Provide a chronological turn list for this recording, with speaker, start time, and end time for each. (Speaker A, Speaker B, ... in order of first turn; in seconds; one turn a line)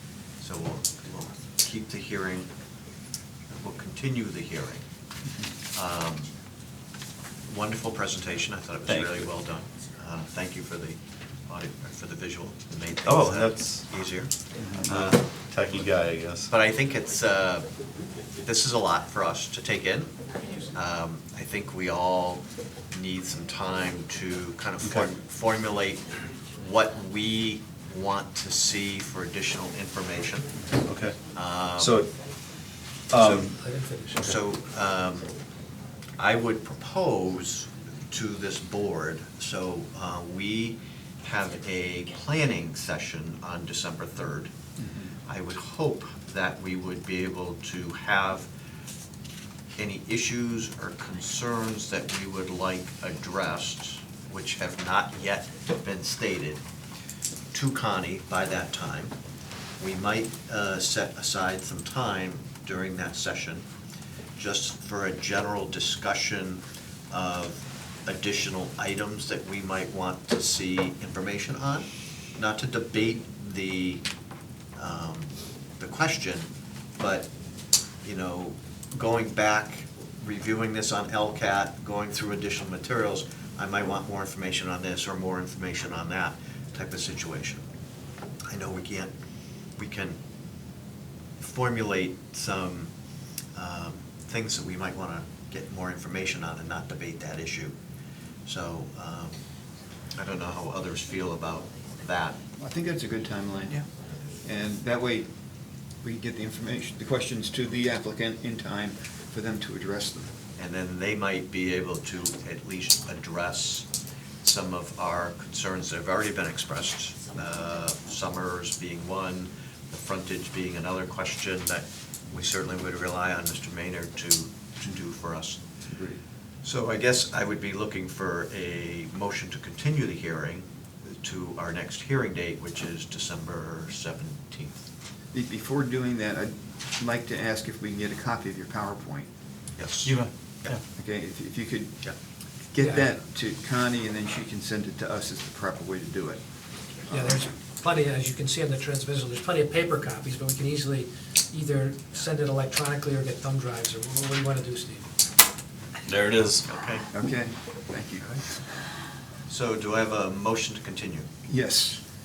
Speaker A: 0.4-2.5
Speaker A: 3.5-4.8
Speaker A: 5.7-6.3
Speaker A: 7.5-14.3
Speaker B: 8.9-9.3
Speaker B: 13.1-13.9
Speaker B: 14.8-16.5
Speaker A: 14.9-15.9
Speaker A: 16.5-17.7
Speaker A: 18.4-20.2
Speaker A: 20.7-30.5
Speaker B: 30.8-31.2
Speaker A: 31.3-32.0
Speaker B: 31.8-32.1
Speaker B: 33.1-33.6
Speaker A: 33.1-33.5
Speaker C: 33.6-34.2
Speaker A: 34.2-35.3
Speaker A: 36.2-44.5
Speaker D: 44.8-45.1
Speaker A: 45.3-48.5
Speaker A: 49.8-56.6
Speaker A: 57.5-59.1
Speaker A: 59.8-63.7
Speaker A: 64.4-74.0
Speaker A: 74.8-77.3
Speaker A: 78.0-87.6
Speaker A: 88.5-89.1
Speaker A: 89.8-90.2
Speaker A: 91.4-92.9
Speaker A: 93.5-97.7
Speaker A: 98.5-99.4
Speaker A: 100.1-102.4
Speaker D: 102.6-103.8
Speaker D: 104.4-105.3
Speaker D: 106.0-110.3
Speaker A: 110.6-113.9
Speaker A: 114.4-125.6
Speaker D: 125.9-126.2
Speaker A: 126.6-130.7
Speaker A: 131.2-134.9
Speaker D: 135.3-139.3
Speaker A: 139.8-140.8
Speaker B: 140.0-140.8
Speaker D: 140.9-142.0
Speaker D: 142.7-146.4
Speaker C: 142.8-143.1
Speaker D: 147.1-147.5
Speaker C: 147.1-155.1
Speaker B: 156.1-156.7
Speaker A: 156.7-157.1
Speaker D: 157.1-158.4
Speaker A: 159.5-161.3
Speaker D: 161.5-162.0